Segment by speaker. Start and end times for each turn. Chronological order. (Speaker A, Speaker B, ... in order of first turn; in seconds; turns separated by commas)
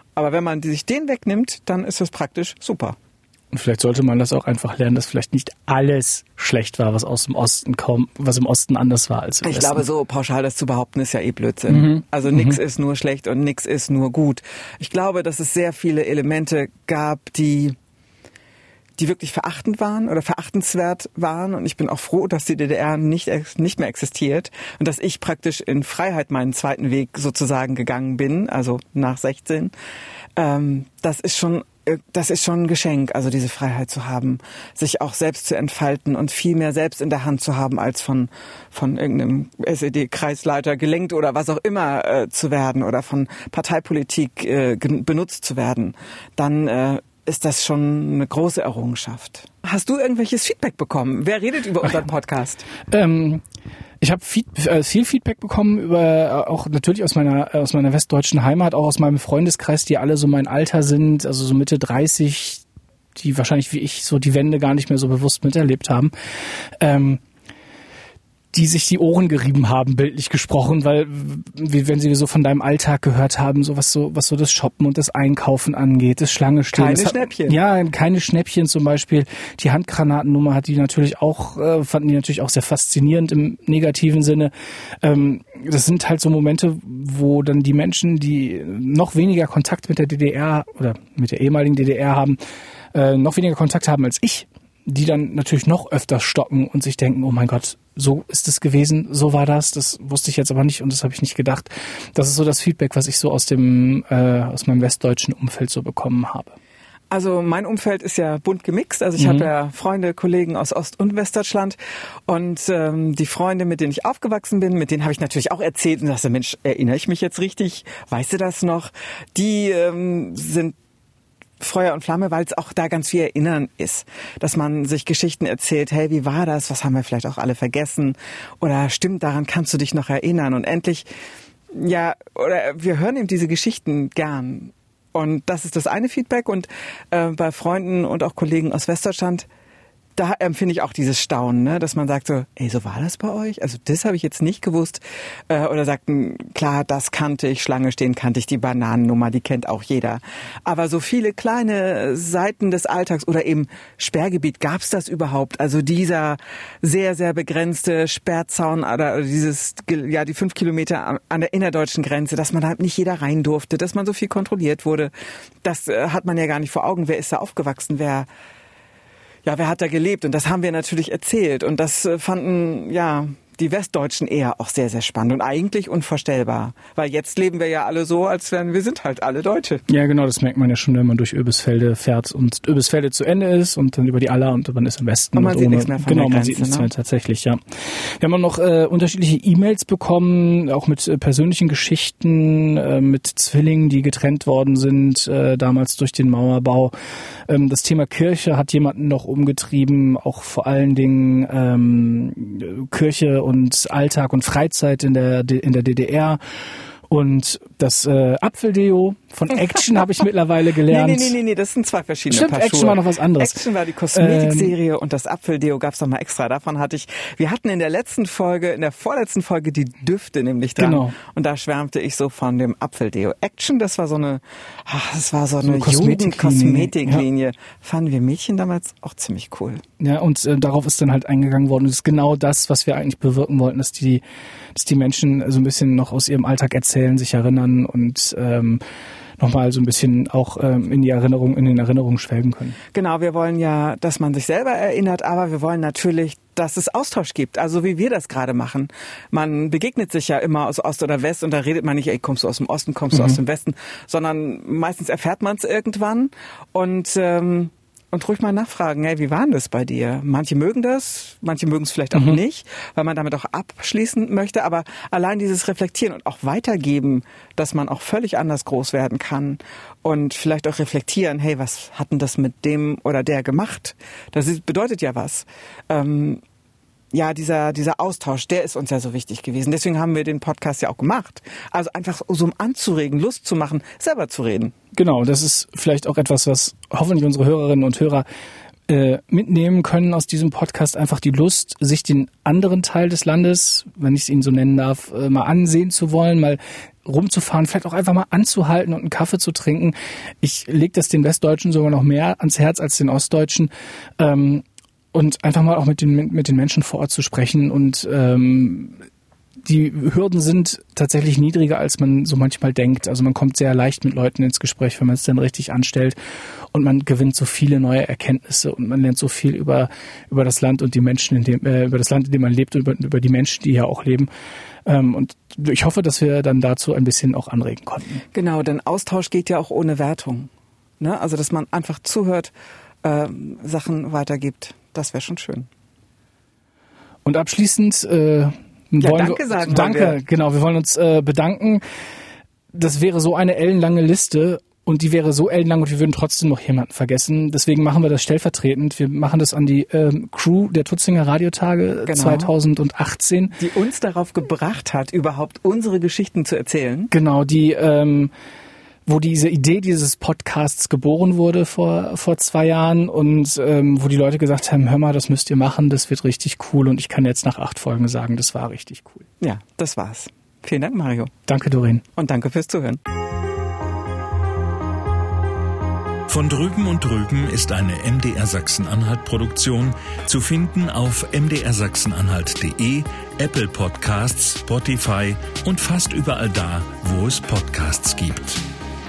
Speaker A: 0.2-3.0, Speaker B: 3.5-9.8, Speaker A: 9.4-17.8, Speaker B: 11.7-12.6, Speaker A: 19.0-29.7, Speaker A: 30.4-52.7, Speaker B: 52.9-53.4, Speaker B: 54.0-62.6, Speaker B: 63.2-66.1, Speaker B: 66.8-67.2, Speaker B: 68.5-92.4, Speaker A: 76.7-77.6, Speaker B: 92.9-106.6, Speaker A: 107.1-120.8, Speaker B: 109.2-109.5, Speaker A: 121.6-131.1, Speaker A: 131.7-139.5, Speaker A: 140.2-165.1, Speaker A: 165.6-168.3, Speaker A: 169.4-179.8, Speaker B: 179.9-196.9, Speaker A: 185.3-186.9, Speaker B: 197.5-206.4, Speaker B: 207.1-211.3, Speaker A: 210.9-229.8, Speaker B: 212.3-214.7, Speaker B: 220.8-221.2, Speaker B: 225.6-227.2, Speaker B: 230.0-234.2, Speaker B: 234.8-238.8, Speaker B: 239.4-242.8, Speaker A: 242.9-276.4, Speaker B: 262.1-262.4, Speaker A: 277.1-284.8, Speaker B: 284.9-288.2, Speaker B: 288.9-309.1, Speaker B: 309.6-316.2, Speaker B: 316.7-324.3, Speaker B: 324.9-328.2, Speaker A: 328.3-332.5, Speaker A: 333.0-335.7, Speaker B: 337.2-341.8, Speaker A: 339.0-340.2, Speaker B: 342.7-353.6, Speaker A: 352.1-352.5, Speaker A: 353.6-357.1, Speaker B: 357.1-358.3, Speaker B: 359.1-369.3, Speaker A: 369.4-371.3, Speaker B: 371.5-372.1, Speaker A: 372.2-373.0, Speaker C: 376.3-388.6